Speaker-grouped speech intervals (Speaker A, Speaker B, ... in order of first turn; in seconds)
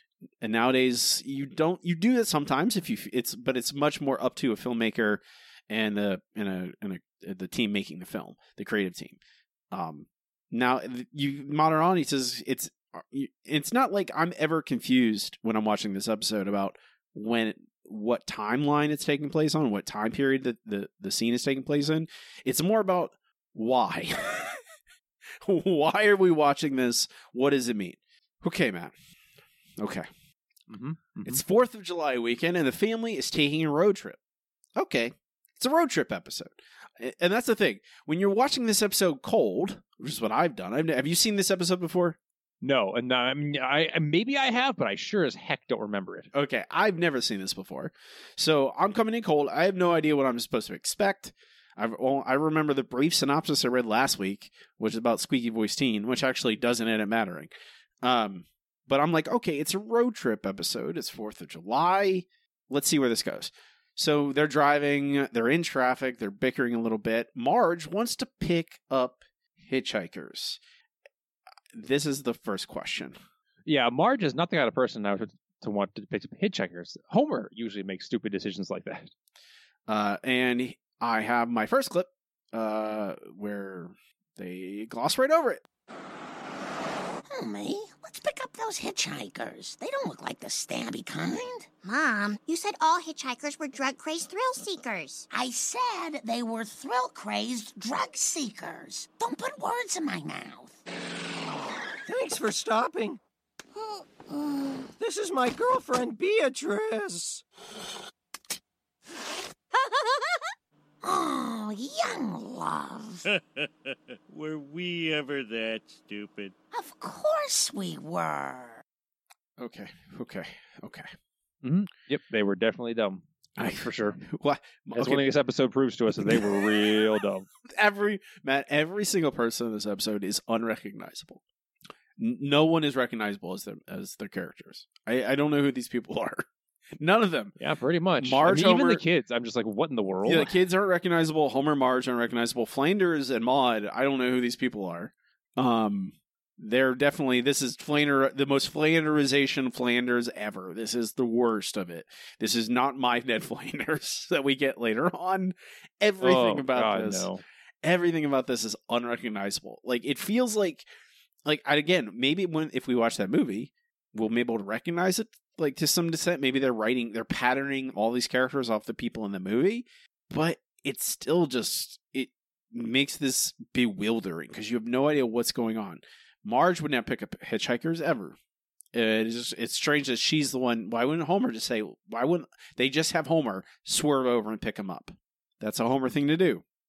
Speaker A: 0.4-9.2, 9.7-24.6, 25.4-28.9, 29.8-30.1, 31.2-34.2, 34.8-42.2, 46.3-57.5, 58.0-70.6, 71.7-73.2, 79.9-85.6, 119.6-121.1, 123.6-125.3, 126.2-126.7, 127.7-131.4, 132.2-136.4, 137.0-137.5, 138.2-139.0, 140.2-157.3, 157.8-160.8, 161.4-178.4, 178.9-186.6
Speaker B: 30.7-31.4, 42.6-46.3, 73.7-79.1, 121.6-123.2, 123.8-124.2, 124.9-127.5, 137.6-140.6, 156.2-157.4
Speaker C: 87.2-91.7, 95.3-100.8, 103.8-104.9, 109.7-110.3, 111.0-113.2, 116.7-118.8
Speaker D: 91.8-95.3
Speaker E: 102.0-103.2, 105.0-107.4
Speaker F: 113.3-116.5